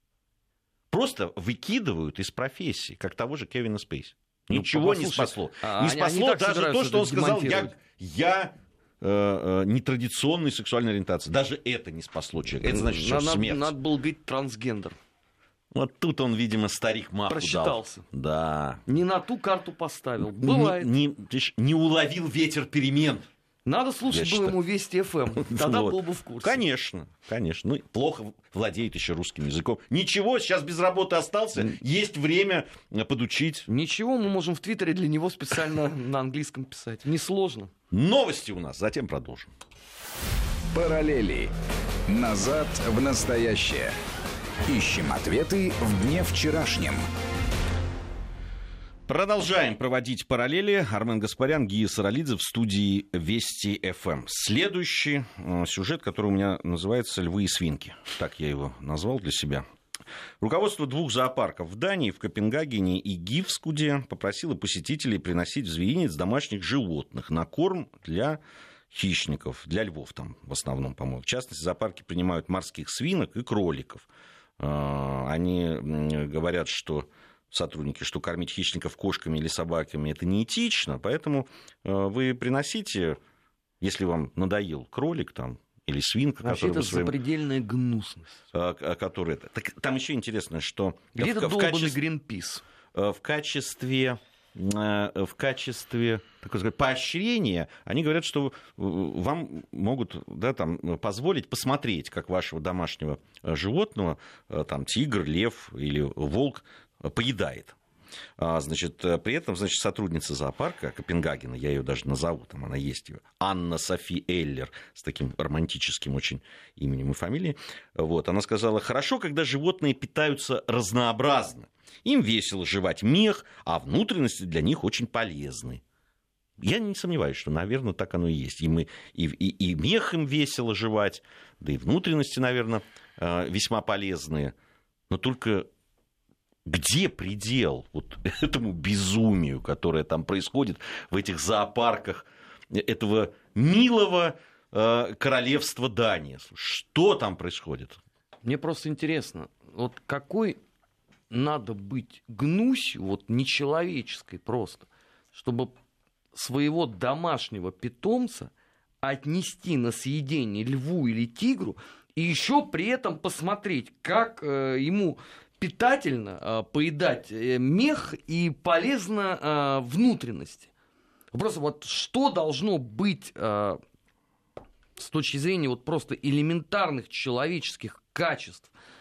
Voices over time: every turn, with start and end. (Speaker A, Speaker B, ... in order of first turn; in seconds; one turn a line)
Speaker A: 0.9-13.7
Speaker B: 4.5-7.7
Speaker B: 12.6-15.0
Speaker A: 15.7-18.8
Speaker B: 17.3-18.1
Speaker B: 18.9-20.9
Speaker A: 20.3-23.2
Speaker B: 23.6-26.6
Speaker A: 24.1-24.5
Speaker A: 25.4-33.7
Speaker B: 33.7-37.7
Speaker A: 37.9-39.5
Speaker C: 40.7-41.5
Speaker C: 42.1-43.9
Speaker C: 44.7-47.0
Speaker A: 49.1-59.6
Speaker A: 60.4-68.4
Speaker A: 68.9-74.1
Speaker A: 74.6-83.2
Speaker A: 83.8-87.1
Speaker B: 86.4-88.4
Speaker A: 88.5-92.0
Speaker B: 91.1-92.6
Speaker A: 92.9-107.8
Speaker A: 108.4-125.8
Speaker A: 126.6-134.5
Speaker A: 135.1-135.7
Speaker A: 136.7-148.0
Speaker B: 148.4-150.6
Speaker B: 151.3-155.7
Speaker B: 156.3-158.5
Speaker B: 159.0-170.7
Speaker B: 171.3-173.8
Speaker B: 174.9-178.7